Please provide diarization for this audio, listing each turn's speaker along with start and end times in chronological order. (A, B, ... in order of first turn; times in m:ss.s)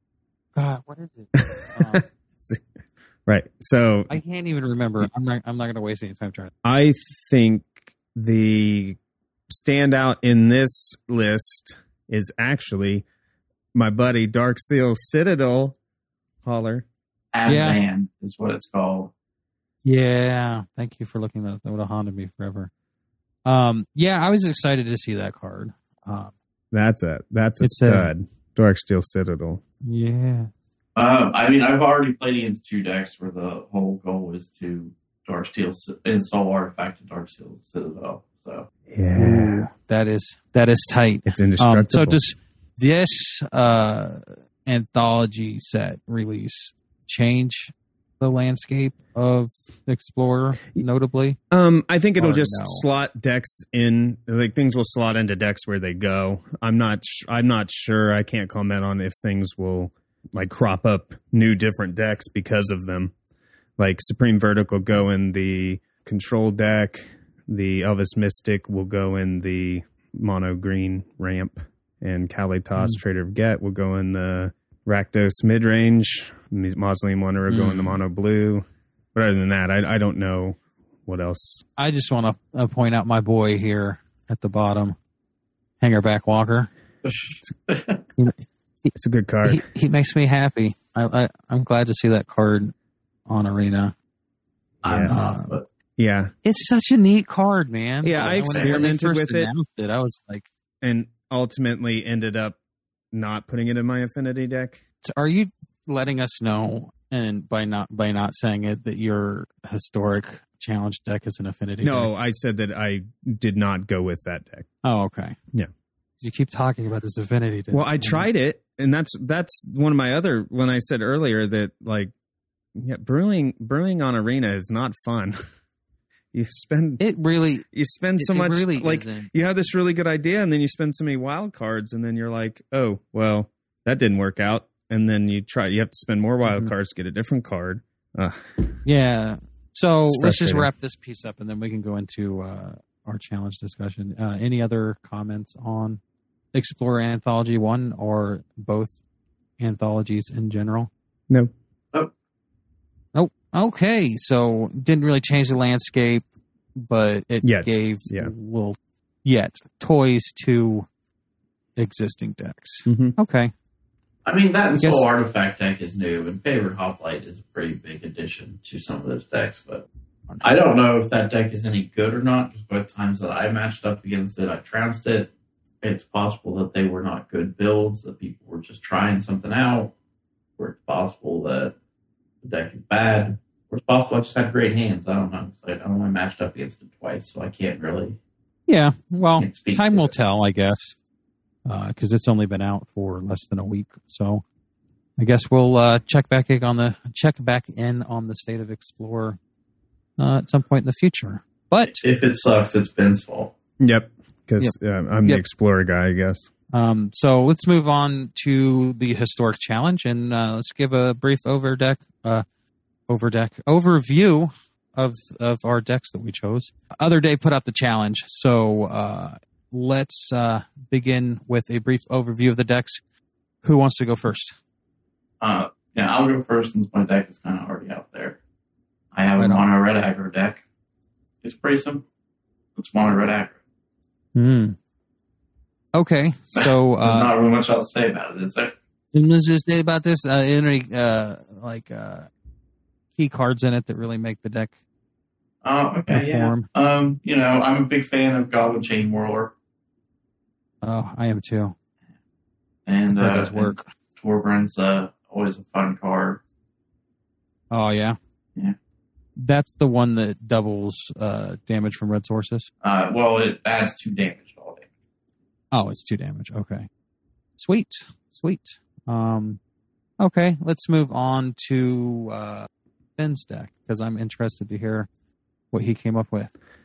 0:00.6-0:02.0 A
0:01.4-0:02.7 B
0:03.3-0:04.2 B
0:04.1-0:06.5 A
0:06.6-0:09.0 B
0:09.5-0:13.0 B
0:13.7-0:15.8 B
0:16.4-0:16.9 B
0:17.3-0:19.1 C
0:17.5-0:17.8 A
0:19.8-0:22.7 A
0:23.4-0:26.3 A
0:26.7-0:29.6 B
0:27.6-0:28.1 A
0:29.8-0:30.5 A
0:31.0-0:38.7 C
0:38.9-0:39.6 B
0:39.1-0:51.4 A
0:41.3-0:42.2 B
0:51.5-1:03.1 B
0:52.2-0:52.8 A
1:03.8-1:18.6 B
1:17.5-1:18.0 A
1:19.2-1:21.6 B
1:21.8-1:25.0 A
1:25.8-1:26.7 A
1:27.0-1:28.0 C
1:28.2-1:32.7 A
1:29.0-1:29.6 B
1:33.3-1:33.9 A
1:34.8-1:35.6 C
1:34.8-1:35.1 B
1:35.1-1:35.6 A
1:36.0-1:36.3 B
1:36.4-1:40.5 A
1:38.0-1:39.5 B
1:38.3-1:38.8 C
1:40.8-1:42.6 B
1:43.1-1:44.8 B
1:45.0-1:52.1 A
1:51.8-1:54.7 B
1:54.8-1:55.4 A
1:56.2-1:58.3 A
1:57.7-2:02.1 B
2:02.8-2:05.4 B
2:06.3-2:07.0 B
2:07.0-2:09.3 A
2:07.7-2:18.8 B
2:16.5-2:16.7 A
2:18.8-2:26.0 A
2:20.1-2:20.7 B
2:26.5-2:29.0 A
2:29.6-2:30.9 A
2:33.1-2:36.2 A
2:36.8-2:40.9 A
2:37.4-2:38.3 B
2:41.8-2:43.5 A
2:42.9-2:43.2 B
2:44.2-2:49.9 C
2:44.8-2:45.1 A
2:50.4-2:55.3 C
2:55.8-2:59.9 C
3:00.6-3:01.7 C
3:02.4-3:08.2 C
3:08.7-3:11.0 A
3:09.4-3:10.1 C
3:11.6-3:14.4 A
3:15.2-3:19.4 A
3:20.2-3:22.0 A
3:21.9-3:23.5 C
3:23.8-3:26.5 B
3:24.6-3:25.4 A
3:26.7-3:32.4 A
3:33.1-3:43.0 A
3:43.6-3:44.6 A
3:45.4-3:48.4 C
3:49.1-3:50.6 C
3:49.4-3:49.7 A
3:51.4-3:52.0 C
3:52.8-3:53.6 C
3:54.4-3:54.8 A
3:55.9-3:57.3 A
3:56.6-3:58.8 C
3:59.1-4:02.3 A
4:03.2-4:04.7 A
4:05.6-4:09.5 C
4:06.1-4:06.7 A
4:10.8-4:11.8 A
4:12.9-4:16.4 C
4:13.1-4:13.8 A
4:17.7-4:18.2 A
4:19.4-4:22.7 A
4:22.8-4:24.9 C
4:25.7-4:26.9 A
4:27.6-4:29.6 A
4:30.2-4:35.1 A
4:35.7-4:36.5 A